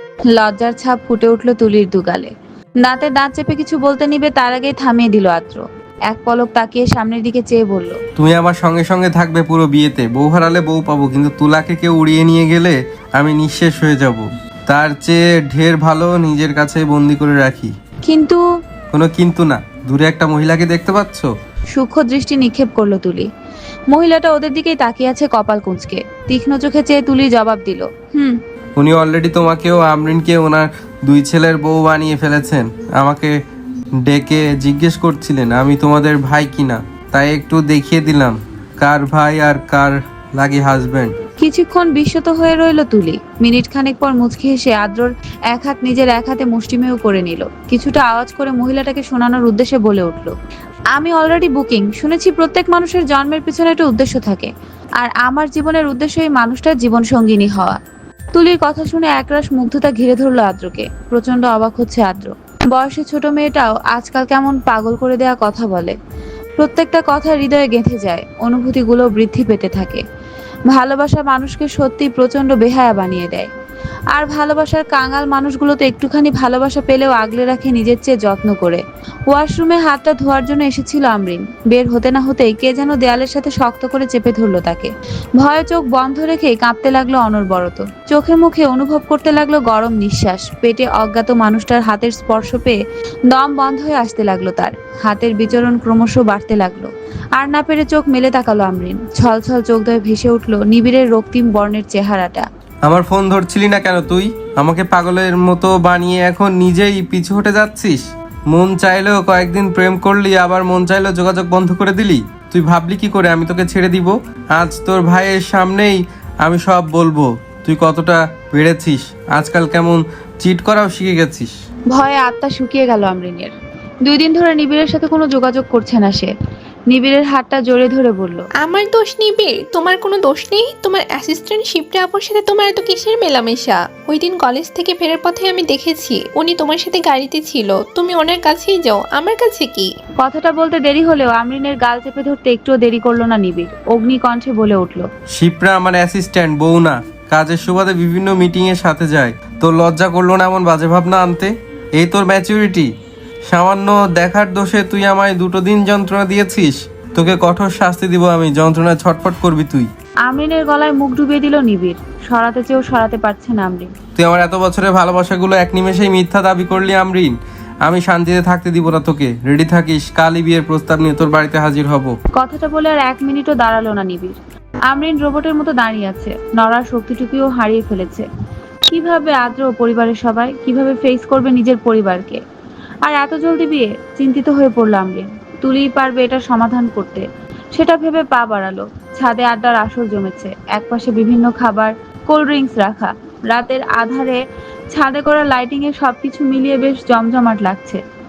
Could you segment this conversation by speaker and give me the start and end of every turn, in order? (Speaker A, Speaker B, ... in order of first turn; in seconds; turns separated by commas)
Speaker A: 0.3-2.3, Speaker A: 2.8-8.0, Speaker B: 8.2-17.7, Speaker A: 18.1-18.4, Speaker B: 18.9-21.3, Speaker A: 21.7-23.3, Speaker A: 23.9-28.4, Speaker B: 28.8-33.4, Speaker B: 34.0-41.1, Speaker A: 41.4-50.3, Speaker A: 50.9-57.8, Speaker A: 58.3-66.0, Speaker A: 66.6-70.0, Speaker A: 70.7-73.5, Speaker A: 74.1-92.8, Speaker A: 93.3-102.5, Speaker B: 102.8-121.5, Speaker A: 121.9-126.3, Speaker A: 126.9-128.4, Speaker C: 128.6-139.9, Speaker A: 140.2-145.1, Speaker B: 145.3-152.9, Speaker B: 153.5-159.9, Speaker A: 160.2-163.9, Speaker B: 164.2-172.1, Speaker A: 172.3-178.2, Speaker A: 178.9-182.4, Speaker A: 183.0-194.4, Speaker A: 194.9-198.0